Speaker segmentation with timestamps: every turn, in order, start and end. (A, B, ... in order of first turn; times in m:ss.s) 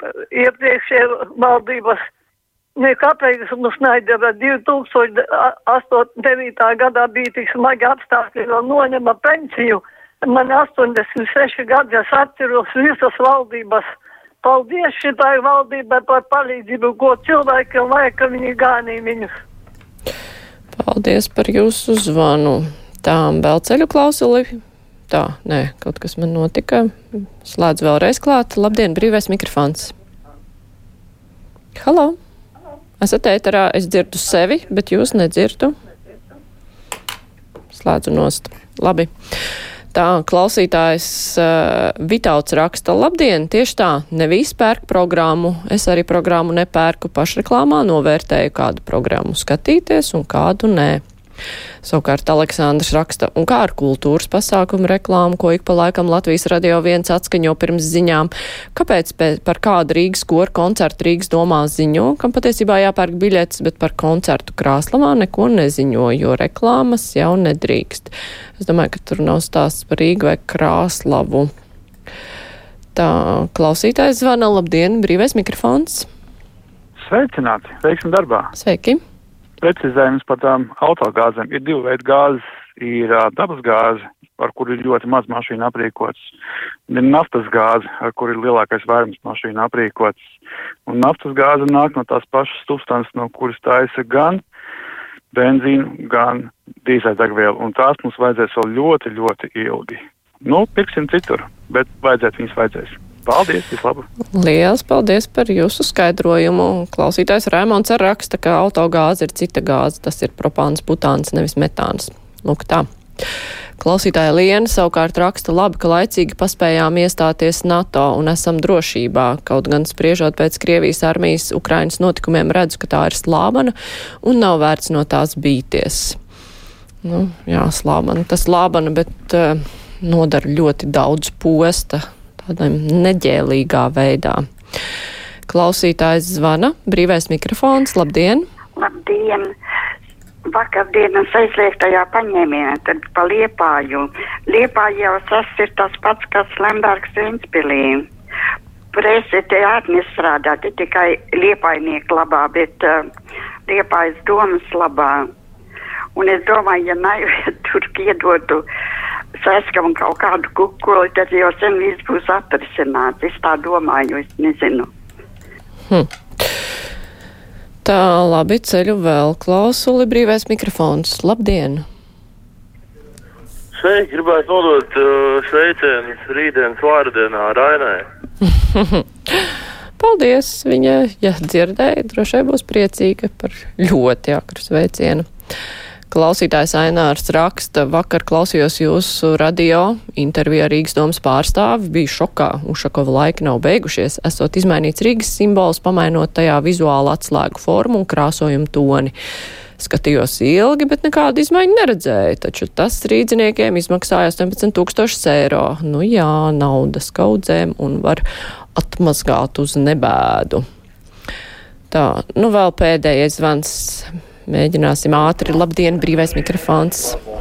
0:00.3-0:02.0 A
0:02.8-0:13.9 A
0:14.4-0:19.3 A
0:20.8-0:24.5 B
0:25.1-0:29.9 B
0:31.8-0:32.2 B
0:33.0-0:35.7 B
0:37.7-0:39.1 B
0:39.9-0:51.0 B
0:51.8-1:11.5 B
1:12.9-1:16.1 B
1:17.0-1:18.5 C
1:18.6-1:19.0 B
1:19.6-1:26.3 C
1:26.9-1:30.2 C
1:30.9-1:34.4 C
1:35.3-1:44.0 C
1:44.3-1:52.8 B
1:53.8-2:06.2 B
2:07.0-2:14.4 B
2:15.5-2:18.5 B
2:18.8-2:19.5 D
2:20.5-2:28.1 D
2:28.9-2:33.0 D
2:33.7-2:35.3 D
2:36.2-2:38.6 D
2:39.4-2:44.9 D
2:47.8-2:51.8 B
2:53.7-2:58.0 E
2:58.7-2:59.0 B
3:00.0-3:05.3 B
3:06.1-3:19.1 B
3:19.8-3:28.2 B
3:28.8-3:30.6 B
3:31.9-3:37.2 B